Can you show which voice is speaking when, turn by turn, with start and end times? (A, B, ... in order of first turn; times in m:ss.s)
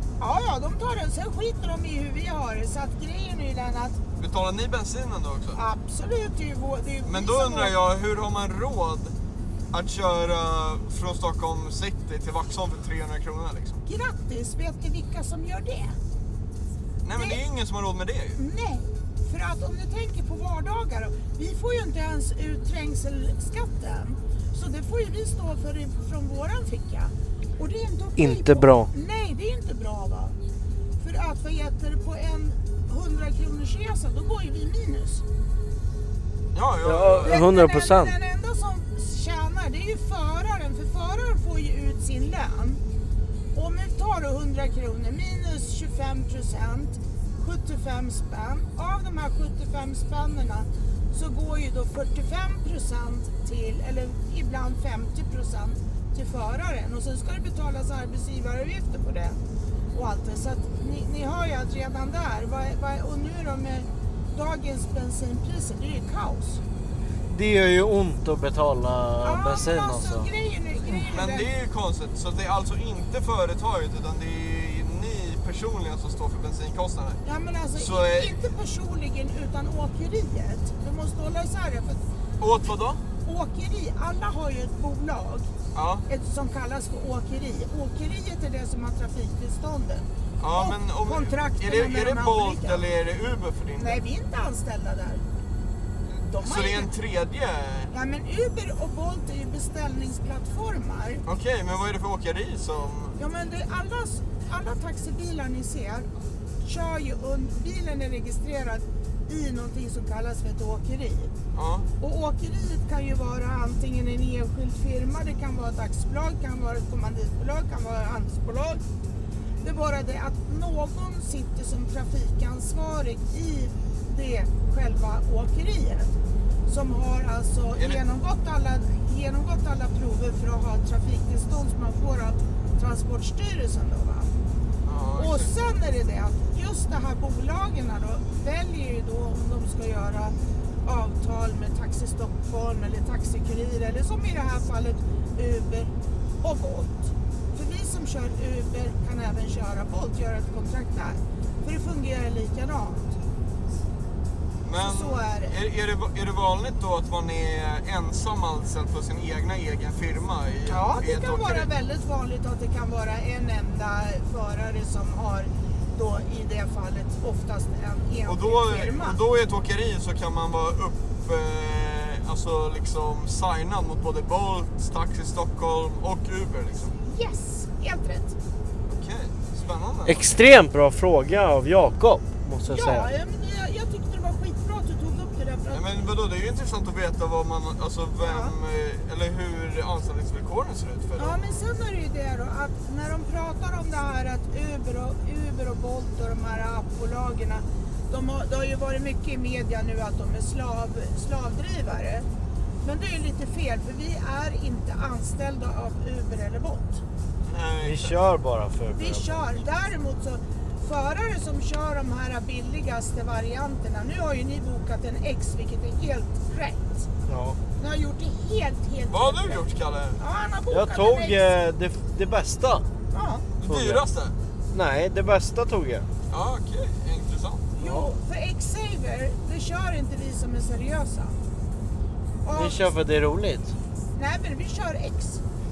0:00.2-0:04.0 A
0:04.2-0:05.6 B
0:05.6-0:07.8 A
0:07.0-0:09.1 B
0:09.7-0:13.8 B
0:13.9-0:16.0 A
0:17.0-0:18.4 B
0:17.2-0:17.4 A
0:18.4-0:30.4 A
0:28.2-0:28.9 C
0:31.0-0:35.2 A
0:36.5-0:37.4 B
0:36.8-0:38.2 C
0:37.2-0:42.8 A
0:43.6-0:59.4 A
0:59.9-1:06.6 A
1:07.3-1:10.3 C
1:09.2-1:11.5 A
1:11.1-1:17.2 B
1:17.2-1:22.0 A
1:17.8-1:18.4 B
1:22.4-1:23.0 B
1:23.2-1:25.5 A
1:25.7-1:26.1 B
1:26.1-1:32.9 A
1:30.4-1:34.0 B
1:33.8-1:35.2 A
1:36.1-1:36.9 A
1:36.4-1:37.9 B
1:37.9-1:41.2 A
1:41.2-1:43.2 B
1:43.2-1:46.1 A
1:46.6-1:51.3 A
1:51.5-1:51.9 B
1:52.0-1:58.8 A
1:59.6-2:06.1 A
2:06.7-2:14.3 A
2:07.8-2:08.0 B
2:14.8-2:15.6 B
2:15.2-2:33.2 A
2:34.6-2:41.7 B
2:34.8-2:35.6 A
2:40.7-2:49.2 A
2:48.2-2:56.9 B
2:57.0-2:58.4 A
2:58.9-3:00.3 B
3:00.0-3:03.1 C
3:02.7-3:06.0 A
3:05.7-3:11.6 B
3:08.2-3:08.6 A
3:11.2-3:22.3 A
3:22.8-3:27.0 A
3:27.4-3:28.2 B
3:27.8-3:29.5 C
3:29.0-3:37.1 A
3:37.3-3:37.6 C
3:37.8-3:39.6 A
3:39.1-3:40.2 B
3:40.2-3:41.5 A
3:40.7-3:42.9 C
3:43.1-3:43.5 A
3:43.6-3:44.4 B
3:43.6-3:44.0 C
3:44.7-3:46.1 C
3:46.3-3:47.7 B
3:47.8-3:51.4 A
3:47.8-3:48.1 C
3:52.4-3:52.9 A
3:52.5-3:53.8 C
3:54.2-3:55.4 A